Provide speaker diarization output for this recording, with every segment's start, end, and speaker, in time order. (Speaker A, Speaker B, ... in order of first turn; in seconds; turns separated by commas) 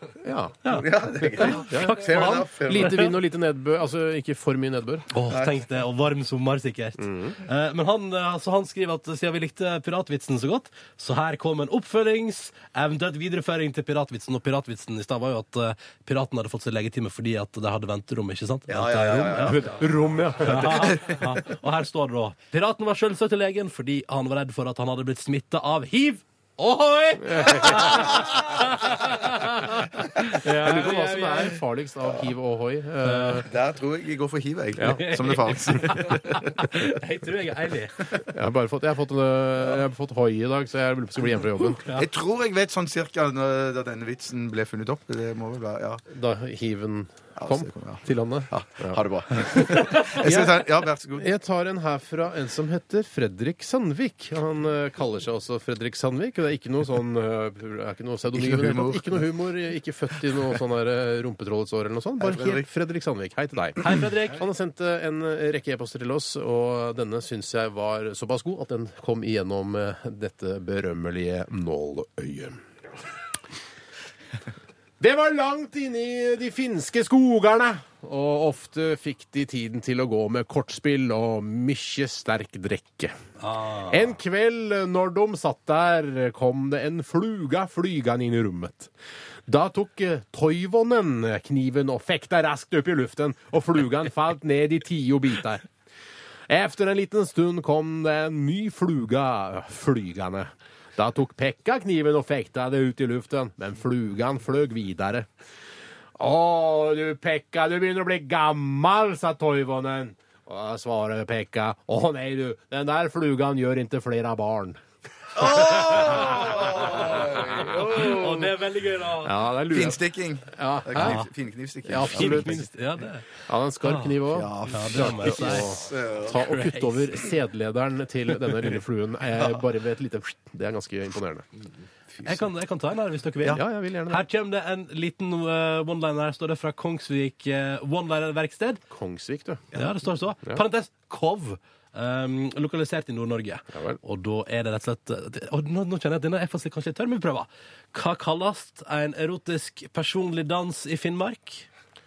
Speaker A: 0.2-0.6, Speaker B: 0.6-3.1, Speaker C: 0.7-3.0, Speaker A: 1.2-5.0, Speaker B: 5.1-19.7, Speaker C: 5.2-5.6, Speaker A: 7.0-7.3, Speaker C: 18.7-19.8, Speaker A: 19.4-21.0, Speaker B: 20.4-31.6, Speaker A: 27.2-28.1, Speaker A: 30.2-33.5, Speaker B: 33.0-33.4, Speaker C: 33.4-36.7, Speaker A: 34.8-35.2, Speaker B: 35.0-38.0, Speaker A: 38.3-41.8, Speaker B: 41.6-42.1, Speaker C: 41.9-46.0, Speaker A: 46.1-50.6, Speaker C: 47.4-51.3, Speaker A: 51.2-72.6, Speaker C: 58.3-59.3, Speaker C: 62.2-62.7, Speaker B: 63.8-64.4, Speaker A: 75.0-83.1, Speaker B: 83.4-84.0, Speaker A: 83.9-88.9, Speaker A: 89.5-95.6, Speaker A: 96.5-105.3, Speaker A: 106.2-114.8, Speaker C: 115.3-118.5, Speaker B: 115.5-119.4, Speaker A: 116.0-116.4, Speaker A: 119.2-121.2, Speaker C: 119.7-122.6, Speaker B: 121.0-121.2, Speaker A: 121.8-122.7, Speaker B: 122.0-123.2, Speaker A: 123.4-131.4, Speaker B: 123.8-124.1, Speaker C: 124.3-126.4, Speaker B: 124.7-127.2, Speaker B: 132.2-138.8, Speaker A: 133.5-134.2, Speaker A: 138.9-139.6, Speaker B: 139.7-151.7, Speaker A: 143.7-144.0